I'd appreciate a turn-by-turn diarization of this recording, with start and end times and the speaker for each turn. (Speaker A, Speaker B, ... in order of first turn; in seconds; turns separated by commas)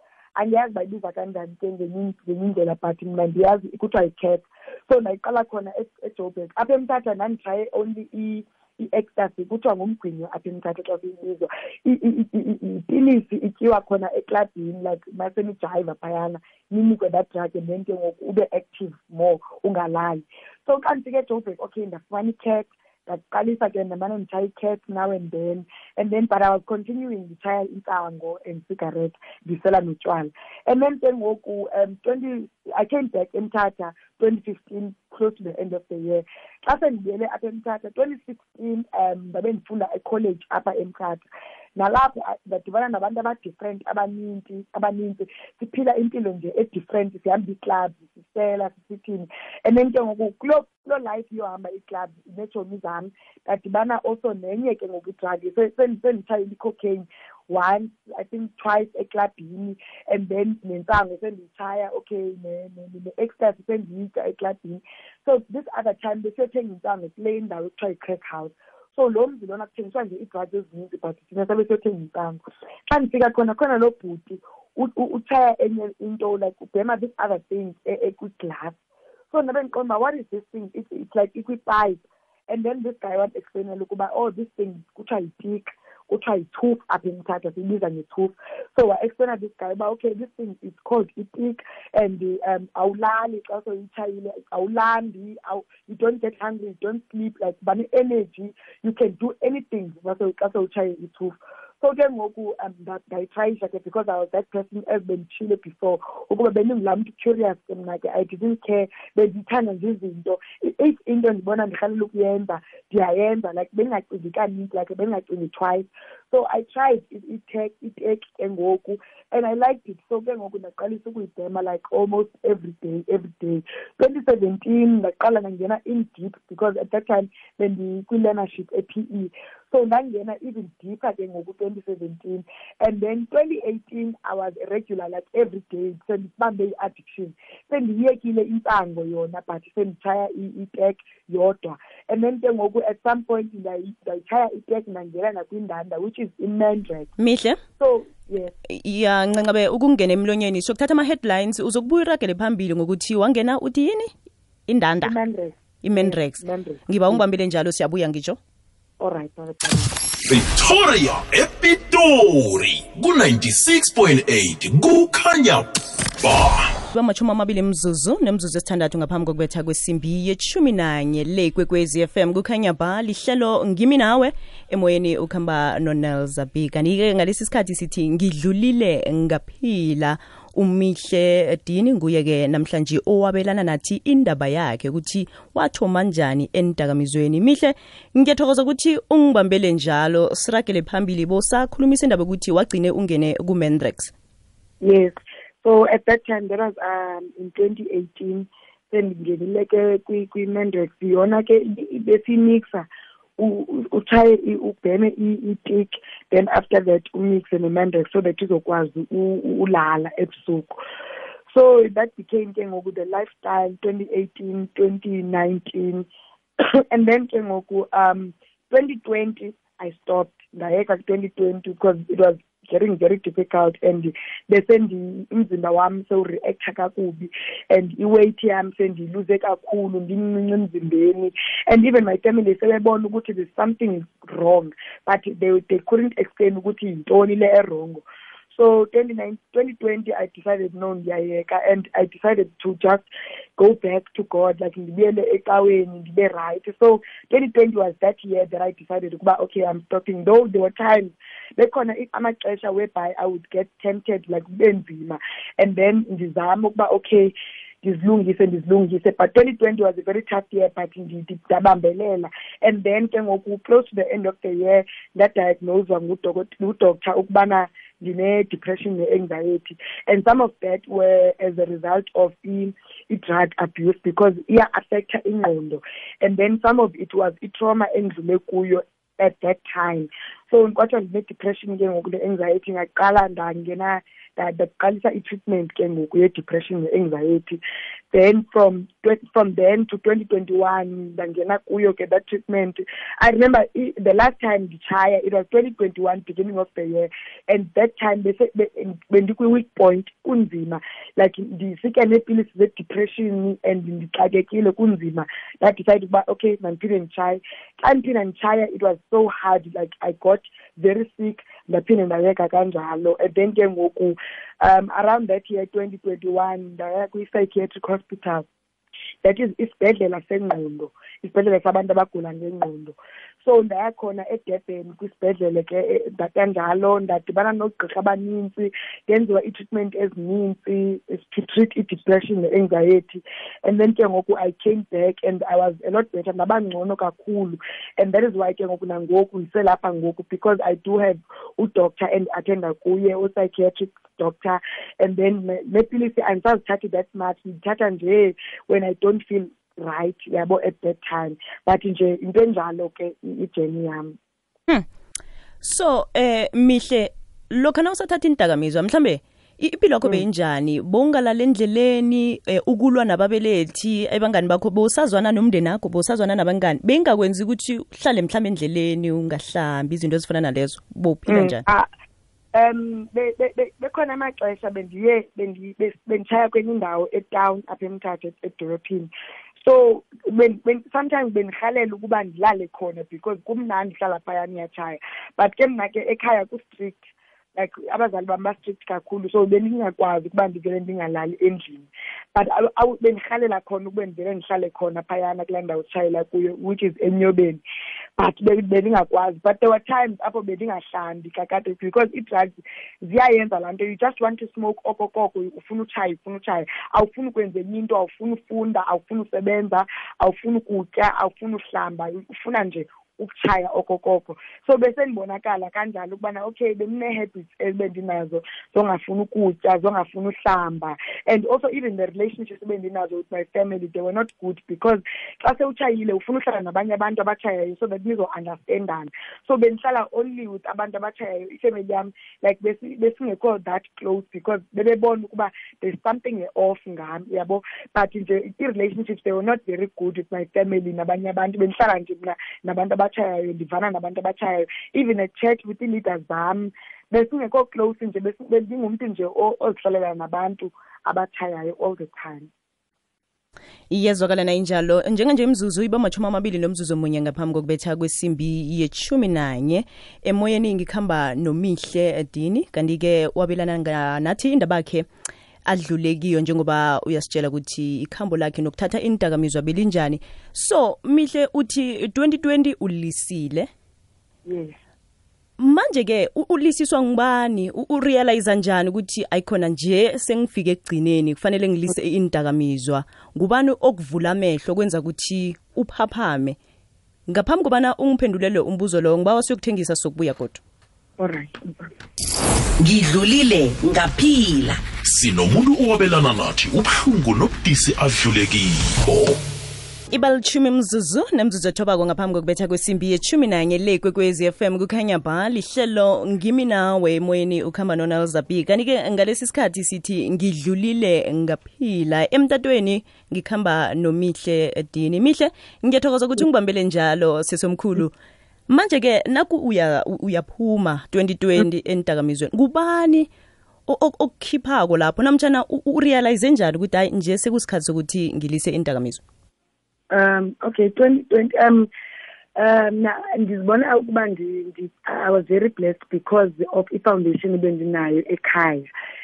Speaker A: 0.4-41.2, Speaker A: 41.8-78.8, Speaker A: 79.3-147.1, Speaker B: 147.2-147.6, Speaker A: 147.8-148.5, Speaker B: 148.7-154.1, Speaker B: 154.7-155.1, Speaker A: 155.0-157.2, Speaker B: 155.8-158.4, Speaker A: 159.0-159.9, Speaker C: 160.2-165.7, Speaker C: 166.2-166.7, Speaker B: 166.9-194.1, Speaker A: 194.8-210.8, Speaker A: 211.5-216.1, Speaker A: 216.6-287.6, Speaker A: 288.1-318.5, Speaker A: 319.2-354.2, Speaker B: 355.6-371.6, Speaker A: 371.3-371.9, Speaker A: 372.5-397.6, Speaker A: 398.2-452.5, Speaker B: 453.9-465.1, Speaker B: 465.7-473.7, Speaker A: 474.5-474.8, Speaker B: 475.6-486.6, Speaker B: 487.3-490.6, Speaker A: 491.2-491.9, Speaker D: 492.8-494.8, Speaker C: 495.0-499.4, Speaker B: 500.1-518.1, Speaker B: 518.7-523.3, Speaker B: 523.9-529.2, Speaker A: 530.1-531.9, Speaker A: 532.5-538.9